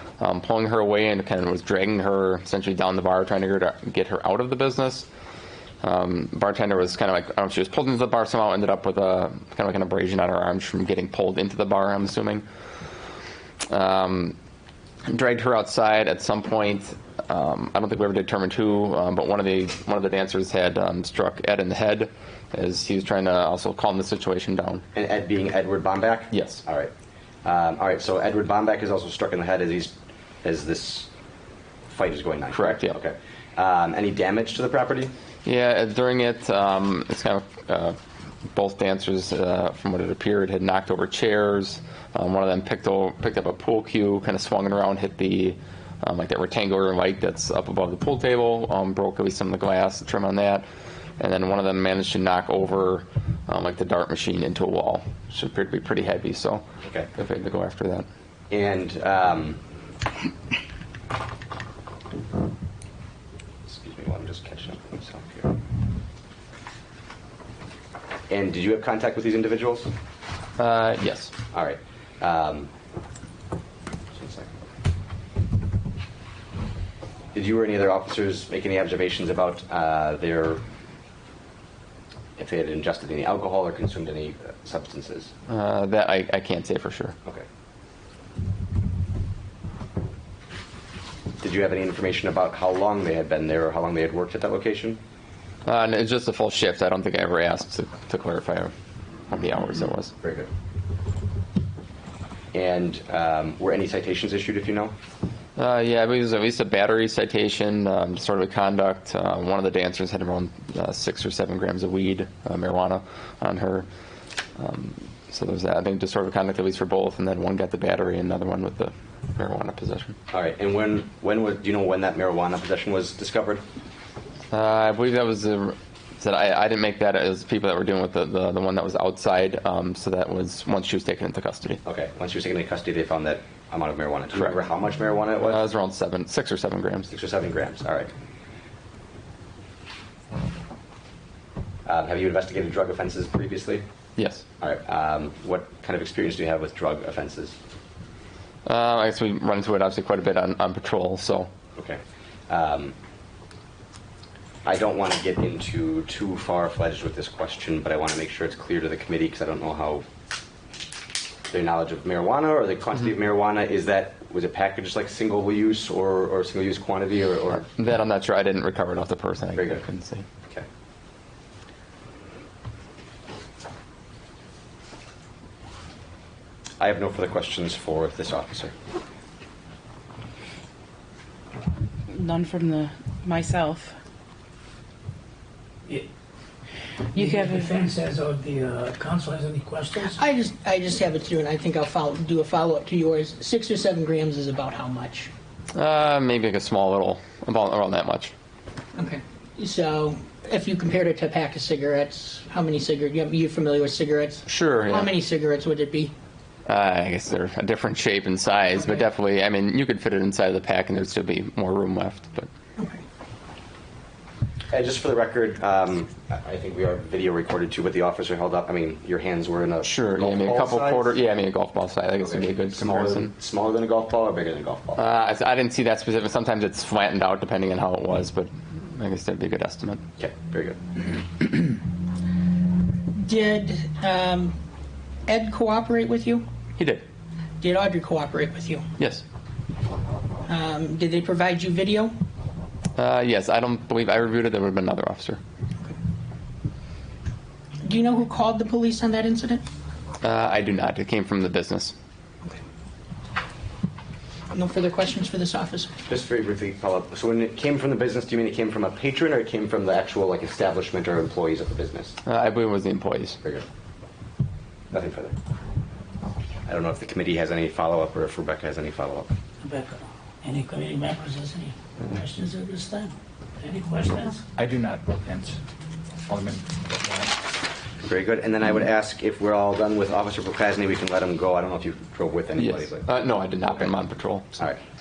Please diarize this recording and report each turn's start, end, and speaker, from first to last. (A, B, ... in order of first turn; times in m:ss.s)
0:00.2-0:05.1 A
0:05.8-0:12.4 A
0:13.7-0:14.4 A
0:15.1-0:24.8 A
0:24.9-0:26.9 B
0:26.3-0:26.6 A
0:27.4-0:31.1 B
0:31.9-0:35.1 B
0:32.5-0:33.0 A
0:35.4-0:38.0 A
0:38.5-0:50.6 A
0:51.2-0:58.1 A
0:56.8-0:57.1 B
0:58.5-0:59.6 B
1:03.7-1:05.5 B
1:08.3-1:09.9 B
1:10.6-1:11.3 A
1:11.5-1:12.7 B
1:14.2-1:14.5 B
1:17.3-1:20.6 B
1:22.4-1:25.3 B
1:25.5-1:27.2 A
1:31.4-1:35.0 B
1:35.6-1:38.7 A
1:39.3-1:40.1 A
1:40.2-1:40.5 B
1:42.5-1:44.9 B
1:45.6-1:53.9 A
1:54.6-2:00.2 A
2:00.3-2:03.6 B
2:04.5-2:11.8 A
2:11.8-2:15.6 B
2:15.4-2:17.1 A
2:17.1-2:18.1 B
2:21.9-2:23.8 B
2:24.2-2:24.4 A
2:24.6-2:27.6 B
2:28.7-2:31.5 A
2:31.8-2:33.0 B
2:34.6-2:40.0 B
2:41.5-2:47.7 B
2:47.6-2:50.2 A
2:49.6-2:49.8 B
2:56.8-2:58.7 B
3:02.1-3:03.9 C
3:07.1-3:10.2 D
3:07.2-3:07.7 C
3:10.1-3:15.3 E
3:15.7-3:18.3 A
3:19.0-3:26.1 E
3:24.5-3:25.1 A
3:26.7-3:32.5 A
3:34.7-3:41.2 B
3:39.8-3:43.3 A
3:42.2-3:45.0 B
3:45.0-3:50.0 A
3:50.2-3:50.8 B
3:53.2-3:54.6 E
3:55.3-3:56.4 E
3:56.8-3:57.0 A
3:57.6-3:58.8 E
3:59.0-3:59.2 A
4:00.5-4:02.1 E
4:03.0-4:05.4 A
4:07.8-4:09.6 E
4:10.2-4:12.0 A
4:14.5-4:15.9 E
4:16.1-4:22.2 B
4:22.2-4:23.4 A
4:24.9-4:25.4 B
4:26.7-4:29.3 B
4:29.6-4:34.4 D
4:34.6-4:35.6 F
4:36.3-4:37.4 F
4:38.0-4:43.1 B
4:42.6-4:44.5 A